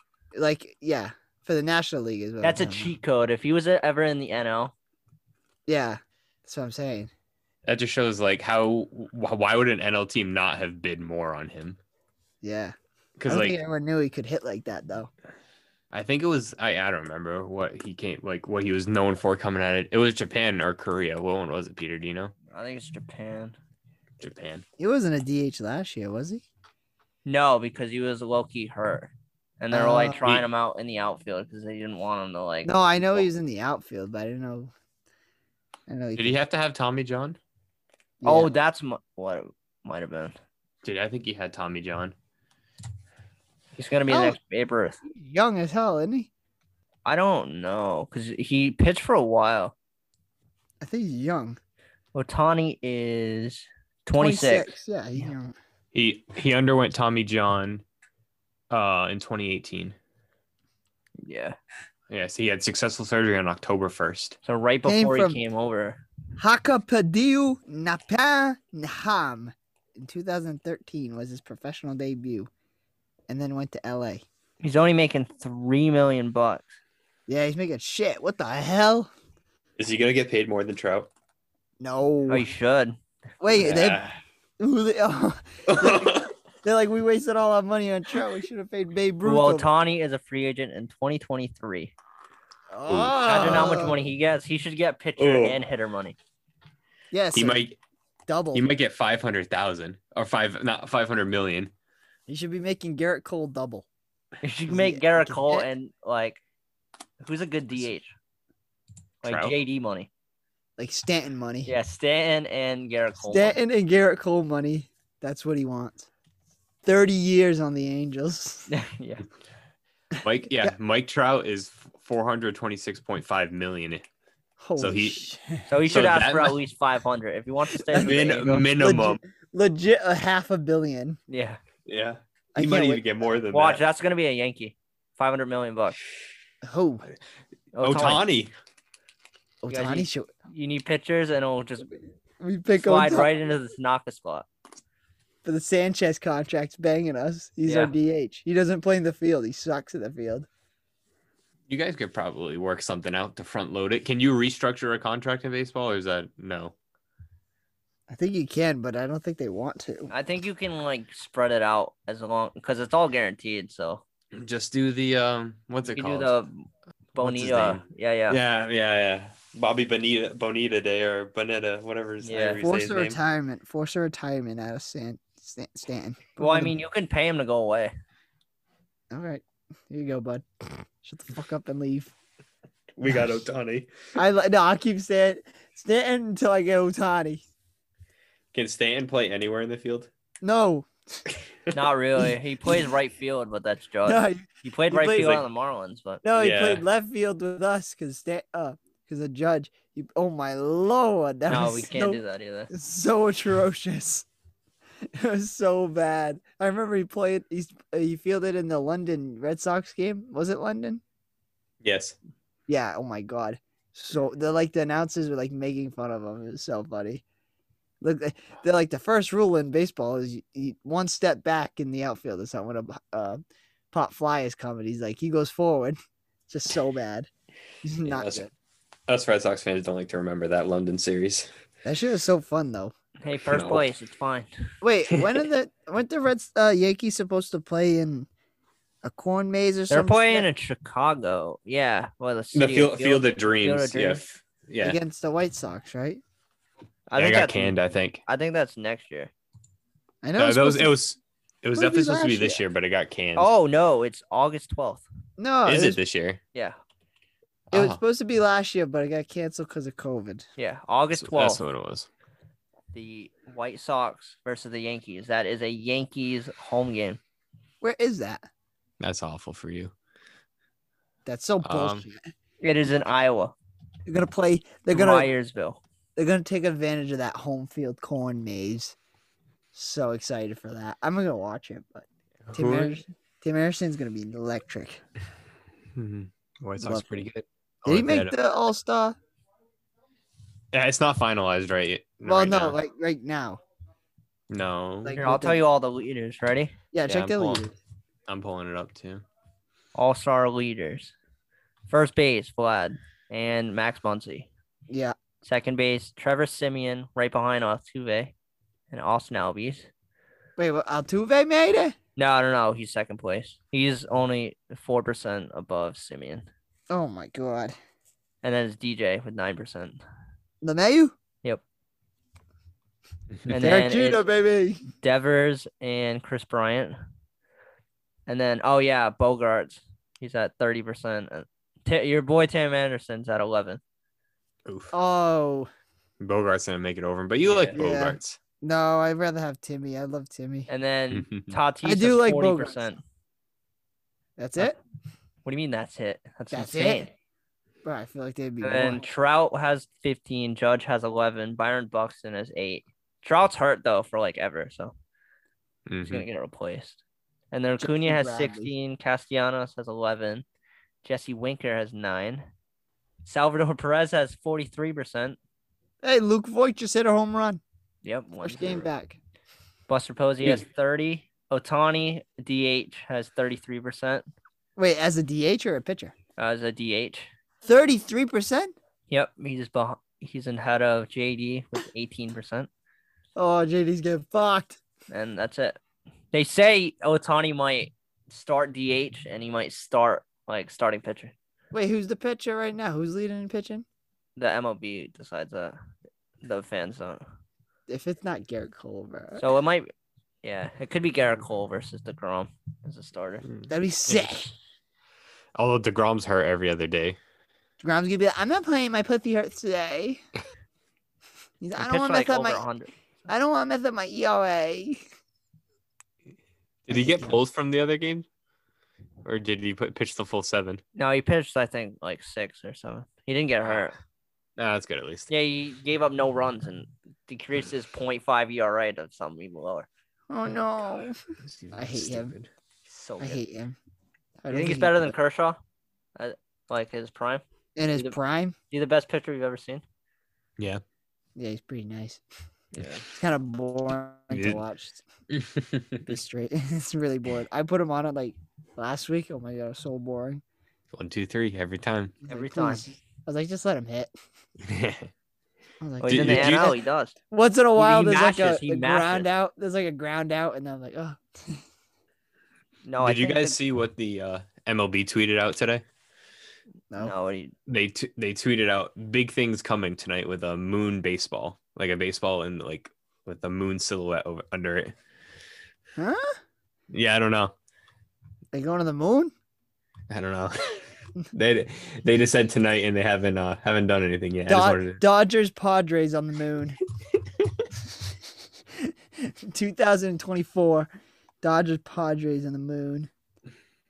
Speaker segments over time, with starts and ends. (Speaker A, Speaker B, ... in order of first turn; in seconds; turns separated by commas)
Speaker A: 0.3-2.9, Speaker B: 2.4-4.7, Speaker A: 5.7-7.1, Speaker C: 7.7-11.8, Speaker A: 12.4-12.7, Speaker C: 13.2-13.6, Speaker A: 13.3-15.1, Speaker C: 15.9-22.3, Speaker B: 22.5-23.6, Speaker C: 24.2-24.6, Speaker A: 24.8-26.4, Speaker B: 27.2-33.3, Speaker A: 29.7-30.2, Speaker A: 32.6-34.7, Speaker A: 35.9-36.4, Speaker C: 36.1-37.4, Speaker A: 38.2-38.5, Speaker B: 38.2-40.3, Speaker C: 40.8-42.1, Speaker B: 43.8-45.0, Speaker A: 44.1-44.4, Speaker A: 45.0-46.3, Speaker B: 47.0-49.7, Speaker A: 50.8-51.6, Speaker B: 52.1-54.7, Speaker A: 54.2-55.5, Speaker C: 55.9-57.8, Speaker C: 58.7-60.0, Speaker B: 61.2-61.5, Speaker C: 62.1-64.4, Speaker B: 64.4-66.0, Speaker A: 64.8-65.4, Speaker A: 66.4-72.5, Speaker A: 73.3-74.2, Speaker B: 74.6-76.7, Speaker A: 77.3-79.1, Speaker C: 79.8-81.1, Speaker A: 81.8-82.5, Speaker B: 82.3-83.0, Speaker A: 83.4-84.0, Speaker C: 83.5-84.2, Speaker A: 84.6-89.7, Speaker C: 85.7-86.3, Speaker B: 89.2-91.9, Speaker A: 92.7-94.0, Speaker C: 92.9-93.9, Speaker B: 93.2-96.2, Speaker C: 95.2-95.6, Speaker A: 97.1-97.6, Speaker C: 97.3-97.8, Speaker A: 98.3-98.7, Speaker C: 98.5-101.7, Speaker A: 102.3-103.8, Speaker B: 104.4-106.4, Speaker A: 104.7-105.7, Speaker B: 107.2-108.1, Speaker B: 109.2-110.1, Speaker C: 109.2-109.5, Speaker A: 110.8-111.7, Speaker B: 111.7-113.6, Speaker A: 113.2-116.1, Speaker A: 116.8-118.7, Speaker B: 118.7-119.2, Speaker C: 120.2-124.0, Speaker A: 124.6-125.6, Speaker C: 124.8-125.3, Speaker B: 125.7-128.5, Speaker C: 125.8-126.6, Speaker A: 127.9-131.2, Speaker C: 128.0-129.2, Speaker B: 131.3-131.6, Speaker C: 131.8-133.8, Speaker A: 132.5-133.1, Speaker B: 133.5-136.0, Speaker A: 136.6-137.0, Speaker B: 137.7-138.2, Speaker C: 137.8-138.5, Speaker A: 139.6-140.3, Speaker B: 139.7-141.9, Speaker A: 142.4-143.3, Speaker B: 142.8-144.5, Speaker A: 145.4-150.5, Speaker B: 147.6-147.9, Speaker C: 151.7-156.7, Speaker A: 158.1-160.1, Speaker B: 160.1-164.0, Speaker C: 164.3-166.3, Speaker B: 165.9-168.4, Speaker C: 167.2-173.2, Speaker B: 172.2-172.6, Speaker A: 172.6-176.7, Speaker B: 176.4-177.9, Speaker A: 179.1-180.4, Speaker A: 181.0-182.1, Speaker C: 183.0-183.9, Speaker A: 184.2-187.4, Speaker C: 188.5-190.1, Speaker A: 190.4-191.2, Speaker B: 191.7-196.2, Speaker A: 194.0-195.4, Speaker A: 196.2-204.2, Speaker C: 196.3-196.8, Speaker B: 201.5-202.7, Speaker A: 205.2-211.0, Speaker C: 211.8-212.1, Speaker A: 212.7-217.2, Speaker A: 218.0-223.4, Speaker A: 223.9-226.0, Speaker A: 226.5-227.3, Speaker A: 227.8-228.5, Speaker C: 228.0-228.4, Speaker C: 229.1-231.5, Speaker A: 231.8-232.9, Speaker B: 233.2-234.5, Speaker C: 233.5-233.8, Speaker A: 234.8-238.3, Speaker A: 239.0-240.5, Speaker B: 239.9-244.2, Speaker C: 242.5-245.0, Speaker A: 244.8-246.2, Speaker B: 247.1-249.3, Speaker C: 247.1-248.2, Speaker A: 250.2-250.9, Speaker C: 250.4-253.5, Speaker A: 251.7-252.6, Speaker B: 253.3-255.0, Speaker A: 255.4-256.0, Speaker C: 255.6-256.4, Speaker C: 257.7-258.0, Speaker A: 257.7-260.4, Speaker B: 260.6-261.6, Speaker C: 261.1-262.1, Speaker B: 262.9-267.2, Speaker A: 267.8-268.4, Speaker C: 269.0-269.9, Speaker A: 271.2-272.3, Speaker C: 271.6-272.1, Speaker B: 272.6-273.5, Speaker A: 274.1-275.3, Speaker B: 274.9-275.8, Speaker A: 276.1-278.9, Speaker A: 279.7-285.0, Speaker C: 282.4-283.0, Speaker C: 285.9-288.3, Speaker A: 286.8-287.1, Speaker A: 287.9-289.1, Speaker C: 290.7-292.8, Speaker A: 292.2-293.6, Speaker C: 294.5-295.2, Speaker A: 295.0-295.6, Speaker B: 295.1-296.8, Speaker A: 296.9-297.7, Speaker C: 297.0-297.6, Speaker C: 298.3-299.2, Speaker B: 299.9-301.1, Speaker B: 301.9-304.5, Speaker A: 304.9-305.1, Speaker B: 305.4-308.3, Speaker B: 308.9-309.9, Speaker A: 310.6-311.9, Speaker B: 312.1-316.5, Speaker A: 316.9-317.8, Speaker B: 318.4-320.0, Speaker A: 320.6-321.1, Speaker B: 323.5-324.2, Speaker A: 323.5-324.8, Speaker B: 325.0-326.9, Speaker B: 328.3-333.8, Speaker C: 334.6-334.9, Speaker A: 334.9-335.7, Speaker C: 336.2-338.4, Speaker B: 337.4-337.8, Speaker A: 337.7-340.7, Speaker B: 340.7-343.0, Speaker C: 341.1-341.6, Speaker A: 341.8-342.9, Speaker A: 344.4-344.8, Speaker B: 345.4-347.1, Speaker A: 346.5-347.1, Speaker A: 347.8-349.0, Speaker B: 348.6-354.9, Speaker C: 355.9-356.2, Speaker B: 356.1-357.0, Speaker B: 357.5-360.4, Speaker A: 357.8-358.7, Speaker B: 361.0-362.5, Speaker B: 363.2-365.4, Speaker A: 366.0-367.6, Speaker B: 368.0-368.9, Speaker A: 368.4-369.2, Speaker B: 369.9-374.2, Speaker A: 374.8-376.1, Speaker B: 376.4-377.3, Speaker A: 377.6-378.7, Speaker B: 379.1-382.7, Speaker A: 383.4-384.8, Speaker B: 385.1-385.8, Speaker B: 386.3-391.3, Speaker A: 391.7-393.8, Speaker B: 394.4-395.8, Speaker B: 396.4-397.2, Speaker A: 397.9-399.4, Speaker B: 399.4-399.9, Speaker B: 400.4-403.4, Speaker C: 403.4-404.3, Speaker A: 403.7-404.5, Speaker C: 405.6-407.2, Speaker A: 407.8-410.2, Speaker A: 411.6-412.6, Speaker B: 411.8-412.9, Speaker A: 413.3-415.0, Speaker C: 416.9-418.2, Speaker A: 416.9-417.4, Speaker C: 419.2-420.8, Speaker B: 420.9-423.9, Speaker C: 424.6-425.3, Speaker B: 425.3-429.9, Speaker A: 430.3-431.2, Speaker C: 431.5-432.5, Speaker A: 431.7-432.3, Speaker B: 432.9-433.4, Speaker A: 433.2-433.8, Speaker A: 434.4-435.1, Speaker B: 434.5-435.6, Speaker B: 436.2-437.4, Speaker A: 437.8-438.6, Speaker B: 438.7-439.8, Speaker A: 441.4-442.2, Speaker C: 442.7-443.1, Speaker A: 443.1-445.0, Speaker C: 444.3-444.6, Speaker C: 445.3-446.0, Speaker A: 446.0-450.4, Speaker C: 450.9-452.1, Speaker A: 452.2-454.1, Speaker B: 452.3-452.9, Speaker C: 454.6-455.1, Speaker A: 455.8-456.8, Speaker B: 456.0-457.1, Speaker C: 456.1-456.8, Speaker A: 457.3-461.6, Speaker B: 457.8-459.3, Speaker B: 462.9-463.6, Speaker C: 463.0-465.8, Speaker B: 467.0-467.5, Speaker C: 467.7-474.9, Speaker A: 476.0-476.4, Speaker C: 476.9-477.5, Speaker A: 478.5-479.3, Speaker C: 480.1-480.8, Speaker C: 481.3-485.0, Speaker A: 484.5-486.8, Speaker A: 488.8-490.9, Speaker A: 491.4-493.1